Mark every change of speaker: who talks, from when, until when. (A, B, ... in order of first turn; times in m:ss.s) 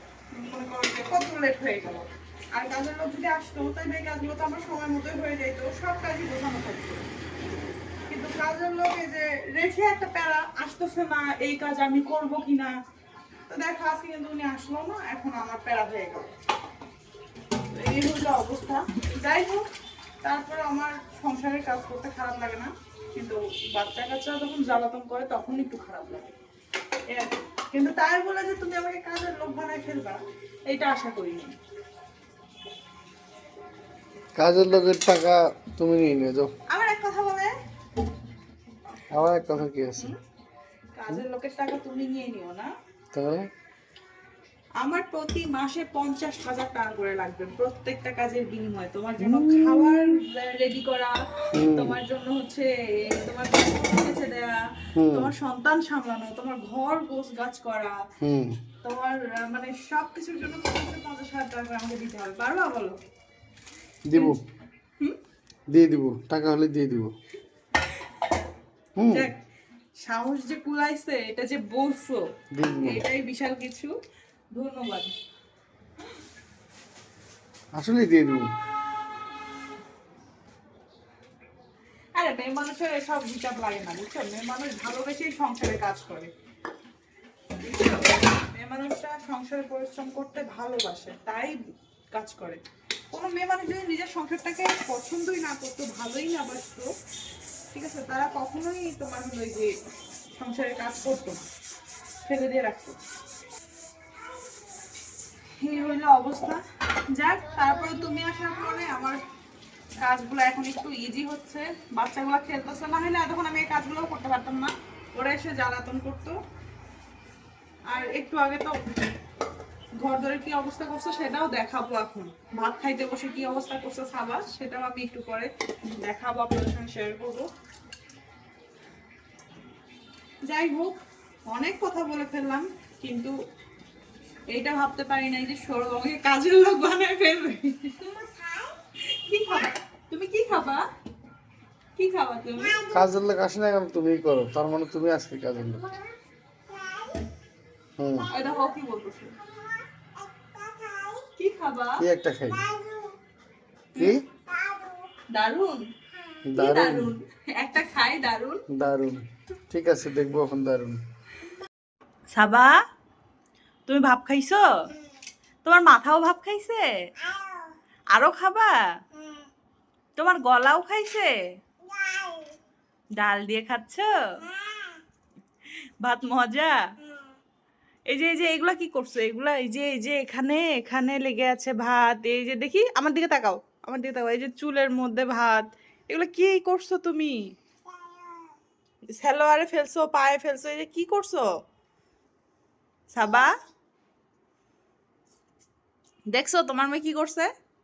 0:00.3-0:07.0 A
0:08.1-0:12.7 A
0:13.5-0:16.3 A
0:17.7-0:19.6 A
0:20.2-0:26.3 A
0:27.1-0:31.5 A
0:34.4-0:36.5 B
0:36.7-0:37.5 A
0:39.1-0:40.1 B
0:41.0-0:42.7 A
0:43.1-0:43.5 B
0:44.8-0:58.0 A
0:49.2-0:50.0 B
0:51.5-0:52.0 B
0:55.0-0:55.3 B
0:58.2-0:58.6 B
0:58.8-1:03.0 A
1:04.1-1:04.4 B
1:05.7-1:07.1 B
1:09.0-1:09.3 B
1:09.1-1:09.4 A
1:10.0-1:12.2 A
1:12.5-1:13.0 B
1:12.8-1:13.9 A
1:14.5-1:15.1 A
1:17.7-1:18.5 B
1:22.1-1:26.3 A
1:27.6-1:31.6 A
1:32.1-1:36.9 A
1:37.7-1:39.7 A
1:40.4-1:41.4 A
1:42.2-1:43.0 A
1:45.6-1:46.6 A
1:47.1-1:49.2 A
1:50.0-1:56.4 A
1:57.9-1:58.8 A
2:00.0-2:07.5 A
2:10.4-2:11.0 A
2:11.5-2:13.3 A
2:14.5-2:18.3 A
2:19.1-2:20.8 A
2:22.0-2:22.9 A
2:22.9-2:25.9 B
2:28.0-2:28.3 B
2:28.3-2:29.3 A
2:31.3-2:32.0 A
2:32.0-2:32.7 B
2:35.3-2:35.8 A
2:36.5-2:37.1 B
2:36.6-2:38.6 A
2:38.7-2:41.0 B
2:42.3-2:42.7 A
2:43.9-2:44.7 A
2:45.6-2:46.9 A
2:48.1-2:48.8 A
2:50.2-2:51.3 A
2:53.2-2:54.4 A
2:56.0-2:56.8 A
2:58.1-3:07.4 A
3:09.1-3:11.5 A
3:13.1-3:13.5 A
3:16.3-3:17.5 A